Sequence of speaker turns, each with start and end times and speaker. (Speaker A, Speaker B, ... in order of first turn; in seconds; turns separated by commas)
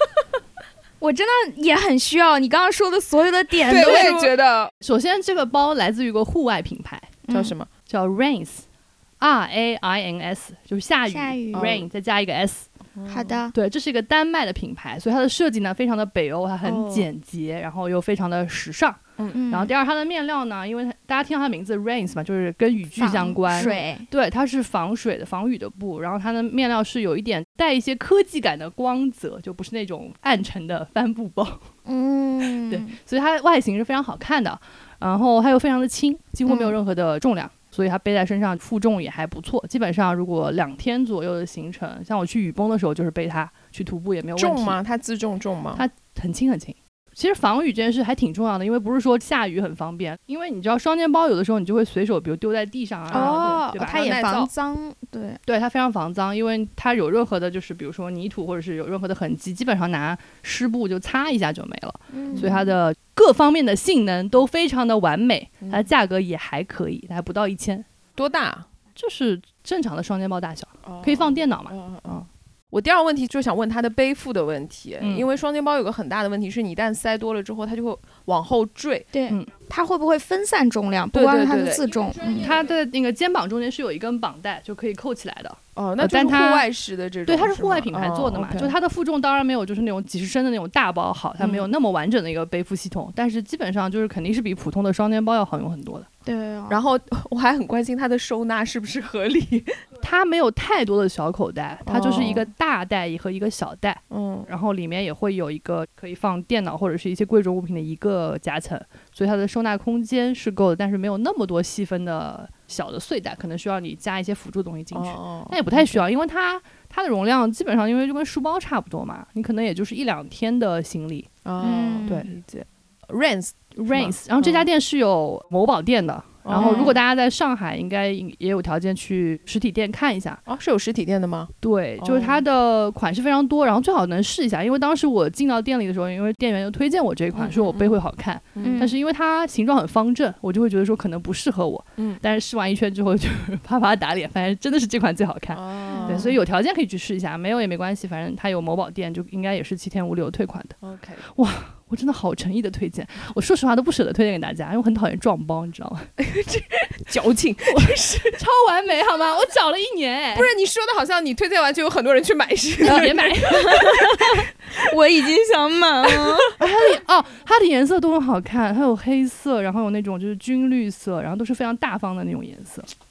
Speaker A: 1.0-4.3, Speaker B: 3.7-4.7, Speaker C: 3.8-4.1, Speaker C: 4.8-7.2, Speaker A: 7.3-7.5, Speaker B: 7.3-7.7, Speaker C: 7.9-8.6, Speaker C: 9.2-12.7, Speaker A: 11.1-11.8, Speaker B: 11.5-11.8, Speaker B: 13.0-13.4, Speaker A: 13.1-13.6, Speaker C: 13.5-19.0, Speaker B: 16.6-17.1, Speaker A: 19.3-19.7, Speaker C: 19.5-31.7, Speaker A: 23.0-24.1, Speaker A: 31.9-32.9, Speaker C: 32.7-44.8, Speaker A: 36.5-36.8, Speaker B: 44.4-45.8, Speaker C: 45.8-54.1, Speaker B: 53.1-54.5, Speaker A: 53.1-55.4, Speaker C: 55.5-67.8, Speaker A: 62.1-62.7, Speaker B: 65.6-65.9, Speaker B: 68.2-68.7, Speaker C: 69.0-72.3, Speaker B: 70.9-72.2, Speaker B: 72.7-79.1, Speaker C: 75.0-75.3, Speaker A: 79.1-82.5, Speaker B: 81.1-81.9, Speaker C: 82.3-86.7, Speaker B: 85.8-88.7, Speaker C: 87.3-96.1, Speaker B: 91.4-91.7, Speaker A: 96.2-96.8, Speaker B: 96.7-99.8, Speaker C: 100.0-121.3, Speaker B: 101.9-102.5, Speaker B: 104.1-104.5, Speaker B: 114.9-116.0, Speaker B: 121.5-124.7, Speaker A: 121.6-122.3, Speaker C: 123.8-130.4, Speaker B: 126.4-127.0, Speaker A: 126.6-127.0, Speaker B: 130.5-132.4, Speaker C: 131.6-150.8, Speaker B: 137.3-138.0, Speaker B: 138.6-138.9, Speaker A: 138.6-139.0, Speaker B: 145.5-146.4, Speaker A: 145.9-146.4, Speaker B: 150.8-151.2, Speaker C: 151.3-156.1, Speaker B: 156.2-158.4, Speaker C: 157.7-160.5, Speaker B: 160.3-163.7, Speaker C: 162.8-164.3, Speaker A: 162.9-166.5, Speaker C: 166.6-172.9